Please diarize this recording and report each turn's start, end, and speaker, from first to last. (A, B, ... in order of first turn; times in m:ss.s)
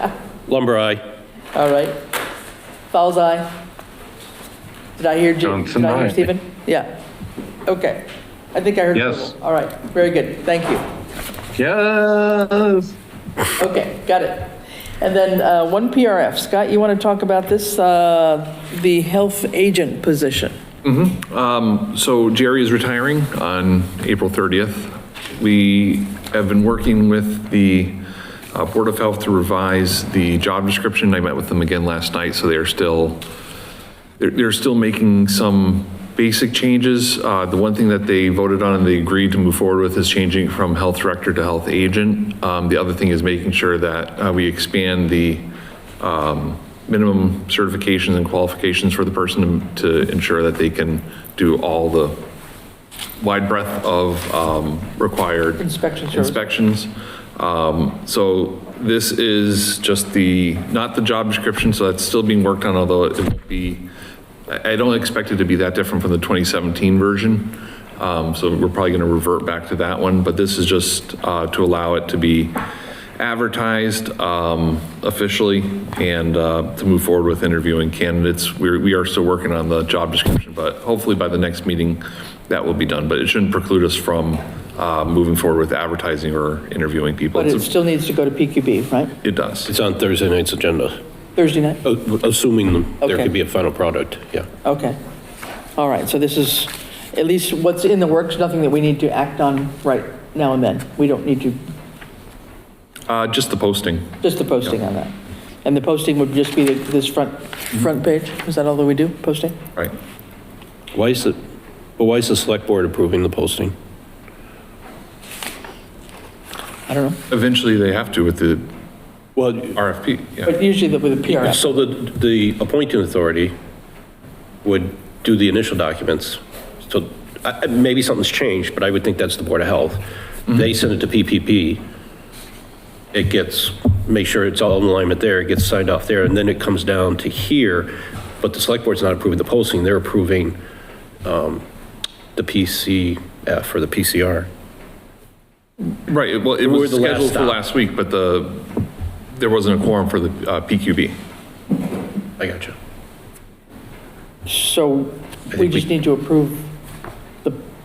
0:00.5-0:01.0 A
0:01.5-0:02.0 B
0:02.9-0:03.5 B
0:05.0-0:06.9 B
0:05.4-0:06.3 C
0:07.6-0:10.8 B
0:08.9-0:09.3 C
0:11.5-0:12.9 C
0:13.6-0:20.6 B
0:20.8-0:28.0 D
0:28.5-0:33.2 D
0:34.2-0:45.5 D
0:46.0-0:52.2 D
0:53.2-1:03.8 D
0:55.6-0:56.4 B
1:04.5-1:12.5 D
1:13.2-1:27.7 D
1:27.3-1:29.1 B
1:29.2-1:29.7 D
1:29.7-1:31.0 A
1:31.4-1:31.8 B
1:31.8-1:34.5 A
1:33.0-1:33.3 B
1:34.6-1:35.0 B
1:35.8-1:41.6 B
1:43.1-1:44.2 D
1:44.2-1:45.1 B
1:45.6-1:49.6 B
1:50.9-1:51.4 A
1:52.0-1:53.7 A
1:56.9-1:57.2 B
1:57.3-1:58.7 D
1:59.4-1:59.7 A
1:59.7-2:00.5 D
2:00.4-2:01.8 B
2:01.3-2:03.5 A
2:04.6-2:11.8 A
2:13.1-2:20.6 A
2:21.2-2:21.6 A
2:22.4-2:24.5 A
2:25.8-2:31.2 D
2:26.6-2:27.6 A
2:32.4-2:32.7 A
2:34.4-2:36.7 B
2:35.6-2:35.8 A